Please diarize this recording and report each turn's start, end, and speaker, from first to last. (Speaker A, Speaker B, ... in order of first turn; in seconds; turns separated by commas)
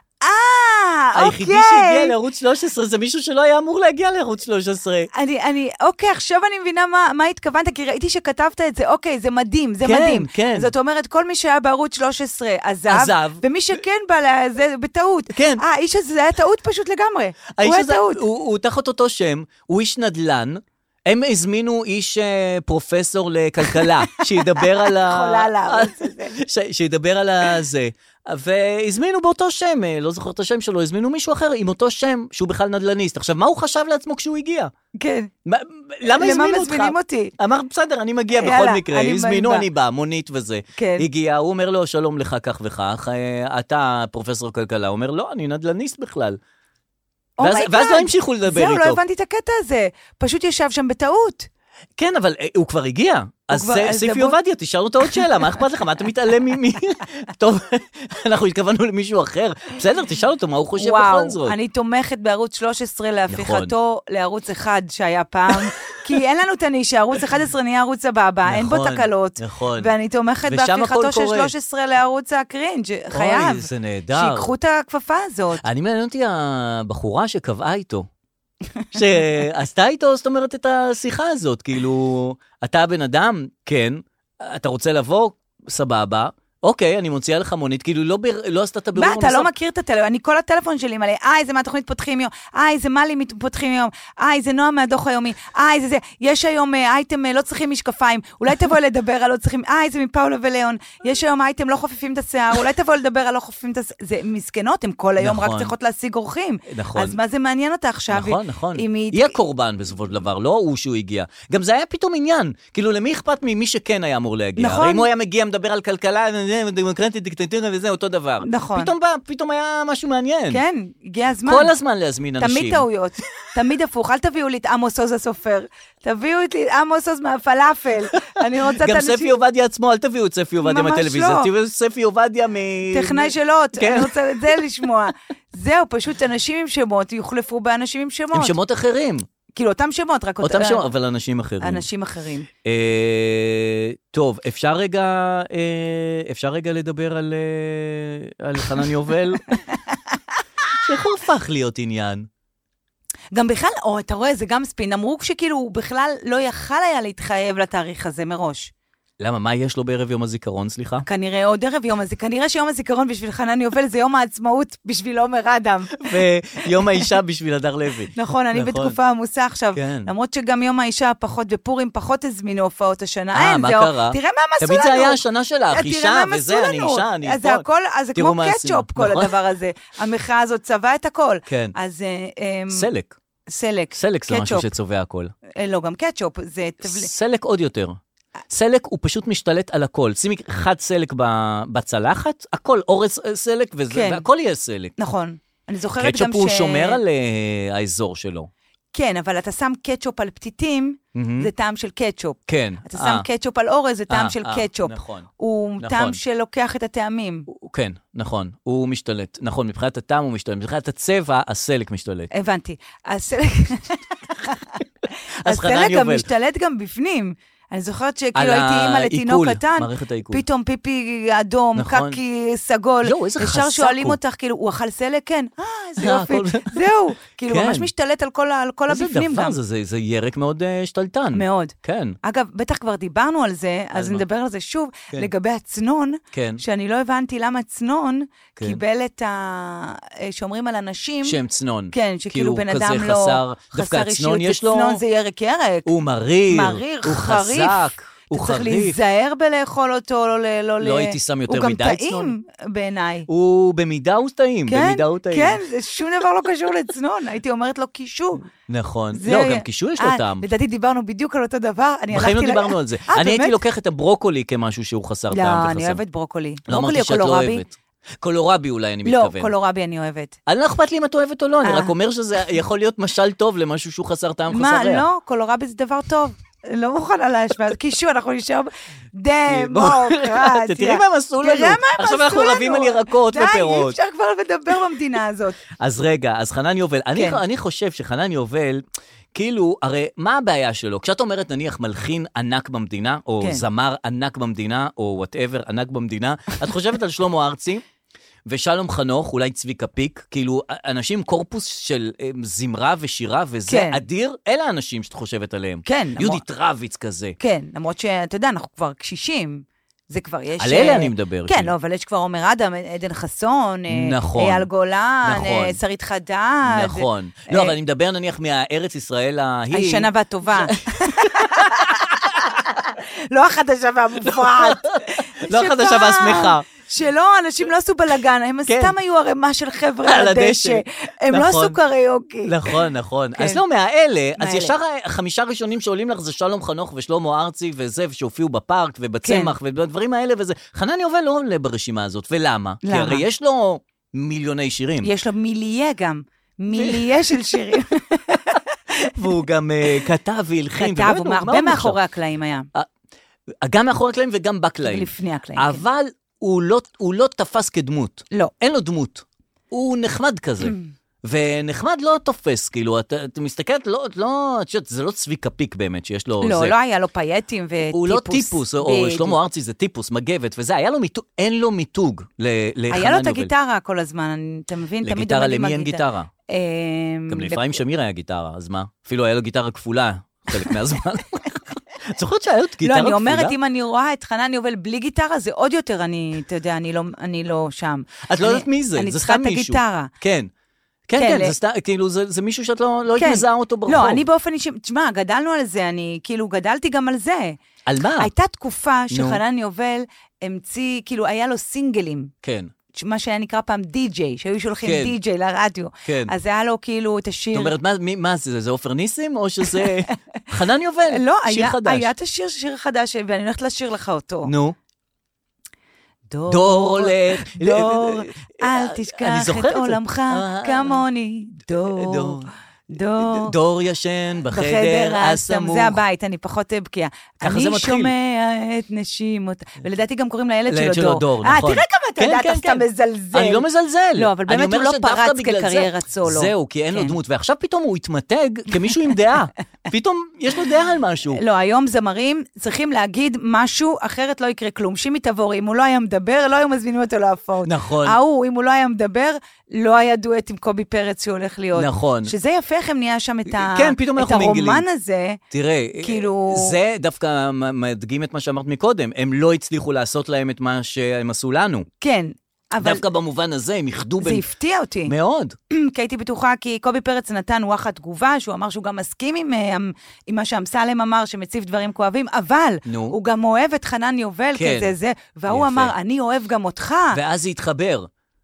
Speaker A: 0.2-2.1, Speaker B: 1.1-5.1, Speaker A: 5.1-18.2, Speaker B: 9.8-10.7, Speaker B: 12.9-13.4, Speaker B: 15.3-15.6, Speaker B: 17.6-34.7, Speaker A: 23.7-26.3, Speaker A: 35.0-35.3, Speaker B: 35.5-46.4, Speaker A: 36.1-37.3, Speaker A: 38.3-39.6, Speaker A: 40.8-41.0, Speaker A: 47.4-51.5, Speaker B: 47.4-49.0, Speaker B: 52.0-61.5, Speaker A: 53.5-54.4, Speaker A: 60.8-75.6, Speaker B: 63.3-63.7, Speaker B: 68.5-69.9, Speaker B: 70.5-71.5, Speaker B: 73.1-74.5, Speaker B: 75.6-78.1, Speaker B: 78.9-89.5, Speaker A: 89.0-109.3, Speaker B: 105.2-105.7, Speaker B: 106.7-107.2, Speaker B: 108.1-120.6, Speaker A: 114.6-115.1, Speaker A: 118.4-118.9, Speaker A: 120.5-121.7, Speaker B: 121.5-122.8, Speaker A: 122.4-129.3, Speaker B: 128.8-134.6, Speaker A: 130.6-131.5, Speaker A: 132.9-138.5, Speaker B: 138.3-139.2, Speaker A: 139.5-140.8, Speaker B: 140.4-141.8, Speaker A: 141.6-142.5, Speaker B: 142.6-149.5, Speaker B: 150.7-152.3, Speaker A: 153.3-158.7, Speaker B: 159.2-161.0, Speaker A: 161.0-166.2, Speaker B: 166.0-168.9, Speaker A: 168.1-175.2, Speaker B: 169.7-170.1, Speaker B: 173.3-179.3, Speaker A: 175.7-182.9, Speaker B: 181.5-181.7, Speaker B: 182.7-183.2, Speaker A: 183.5-184.7, Speaker B: 183.9-185.3, Speaker A: 185.5-187.1, Speaker B: 186.8-188.0, Speaker B: 188.5-194.9, Speaker A: 193.9-194.2, Speaker A: 195.0-197.0, Speaker B: 196.0-198.5, Speaker A: 198.9-207.5, Speaker B: 201.1-201.5, Speaker B: 202.5-203.2, Speaker B: 204.1-205.3, Speaker B: 205.8-206.2, Speaker B: 207.5-212.3, Speaker A: 212.3-214.8, Speaker B: 215.4-216.2, Speaker A: 215.4-229.6, Speaker B: 218.3-220.4, Speaker B: 221.8-222.2, Speaker B: 223.0-224.2, Speaker B: 226.0-226.8, Speaker B: 227.5-227.9, Speaker B: 228.9-232.2, Speaker A: 231.3-241.4, Speaker B: 233.9-234.2, Speaker B: 236.3-236.6, Speaker B: 241.2-245.0, Speaker A: 241.9-245.9, Speaker B: 245.8-249.0, Speaker A: 246.5-253.3, Speaker B: 250.8-252.3, Speaker B: 253.3-255.6, Speaker A: 254.7-258.4, Speaker B: 258.7-260.4, Speaker A: 259.1-263.6, Speaker B: 262.1-266.0, Speaker A: 265.3-267.6, Speaker B: 266.7-269.5, Speaker A: 269.1-270.4, Speaker B: 270.5-275.1, Speaker A: 271.6-271.9, Speaker A: 274.5-285.6, Speaker B: 279.5-283.9, Speaker B: 285.8-288.8, Speaker A: 287.1-287.4, Speaker B: 289.3-297.8, Speaker B: 298.5-307.4, Speaker A: 303.7-304.0, Speaker A: 305.9-306.4, Speaker A: 307.4-317.7, Speaker B: 310.6-311.7, Speaker B: 313.9-314.7, Speaker B: 315.2-315.8, Speaker B: 316.6-322.3, Speaker A: 319.7-332.5, Speaker B: 324.2-326.6, Speaker B: 328.7-328.9, Speaker B: 330.0-331.8, Speaker B: 332.4-345.1, Speaker A: 334.4-334.7, Speaker A: 339.2-339.5, Speaker A: 342.8-343.2, Speaker A: 345.0-348.6, Speaker B: 346.7-347.1, Speaker B: 349.1-352.0, Speaker A: 350.8-352.7, Speaker B: 353.6-366.7, Speaker A: 354.8-355.8, Speaker A: 360.6-360.9, Speaker A: 366.4-369.4, Speaker B: 367.9-373.5, Speaker A: 372.9-377.8, Speaker B: 375.0-376.3, Speaker B: 377.3-383.6, Speaker A: 382.8-390.1, Speaker B: 388.3-390.5, Speaker B: 391.1-394.2, Speaker A: 391.2-391.5, Speaker A: 393.1-397.6, Speaker B: 397.9-398.3, Speaker A: 398.2-402.3, Speaker B: 399.1-399.4, Speaker B: 402.4-402.7, Speaker A: 402.9-407.7, Speaker B: 404.8-405.1, Speaker B: 406.0-406.3, Speaker B: 407.5-412.1, Speaker A: 411.1-414.5, Speaker B: 414.4-414.8, Speaker A: 416.3-423.5, Speaker B: 416.5-421.0, Speaker B: 421.9-422.5, Speaker B: 423.2-426.0, Speaker A: 424.5-433.6, Speaker B: 427.4-428.1, Speaker B: 430.7-441.4, Speaker A: 434.2-437.1, Speaker A: 441.4-455.4, Speaker B: 447.6-448.2, Speaker B: 451.7-452.3, Speaker B: 453.5-454.8, Speaker B: 455.5-461.9, Speaker A: 456.0-456.7, Speaker A: 462.0-463.0, Speaker B: 462.8-464.4, Speaker A: 464.2-465.1, Speaker B: 465.1-465.5, Speaker A: 465.7-477.2, Speaker B: 472.9-473.1, Speaker B: 474.6-474.9, Speaker B: 475.5-475.9, Speaker B: 477.1-478.1